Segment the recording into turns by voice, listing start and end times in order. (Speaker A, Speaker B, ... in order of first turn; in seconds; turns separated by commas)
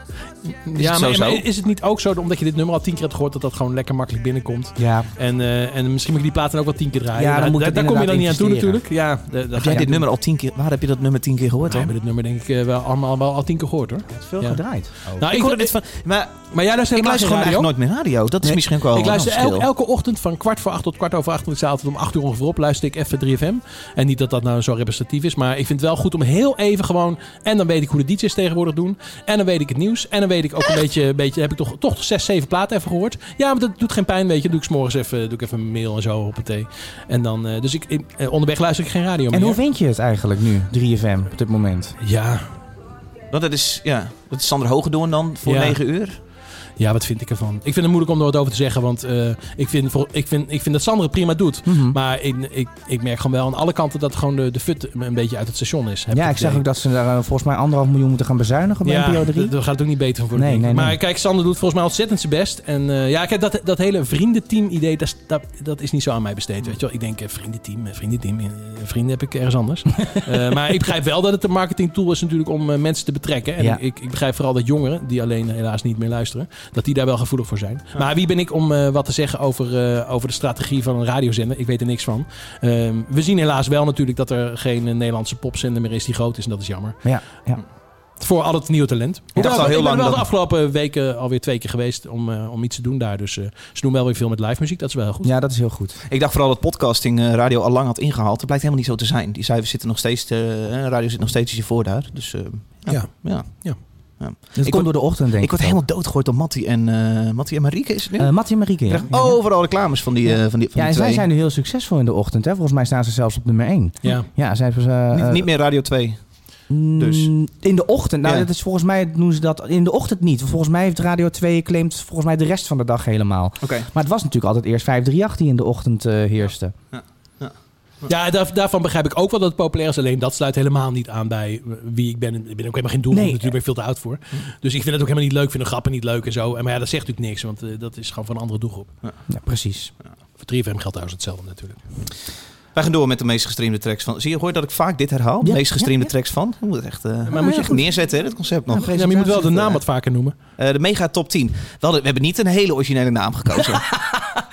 Speaker A: 0.5-10.1, Speaker B: 0.8-1.4, Speaker C: 4.8-5.1, Speaker C: 7.2-8.8, Speaker B: 9.6-11.9, Speaker A: 11.7-15.8, Speaker C: 14.1-15.2, Speaker B: 15.2-19.7, Speaker A: 16.5-17.7, Speaker A: 18.4-39.6, Speaker C: 39.3-42.0, Speaker A: 42.0-42.4, Speaker B: 43.3-46.2, Speaker A: 45.5-45.8, Speaker A: 46.8-56.6, Speaker C: 51.7-52.0, Speaker C: 56.1-59.5, Speaker A: 58.9-87.0, Speaker C: 60.4-61.0, Speaker C: 87.0-87.6, Speaker A: 88.2-95.3, Speaker C: 89.3-89.8, Speaker B: 89.3-90.3, Speaker C: 95.2-96.0, Speaker B: 96.1-111.2, Speaker A: 102.9-103.8, Speaker C: 104.6-105.8, Speaker C: 108.2-115.5, Speaker A: 114.0-114.3, Speaker B: 115.1-116.3, Speaker C: 116.7-126.8, Speaker B: 117.0-117.3, Speaker B: 123.6-123.9, Speaker B: 126.9-128.1, Speaker A: 128.1-138.9, Speaker C: 133.1-133.5, Speaker C: 139.3-139.9, Speaker A: 140.4-141.8, Speaker B: 142.7-149.0, Speaker C: 145.4-146.1, Speaker A: 147.3-147.8, Speaker C: 147.3-147.9, Speaker C: 148.7-149.8, Speaker A: 148.9-150.3, Speaker B: 150.6-153.9, Speaker C: 153.9-154.4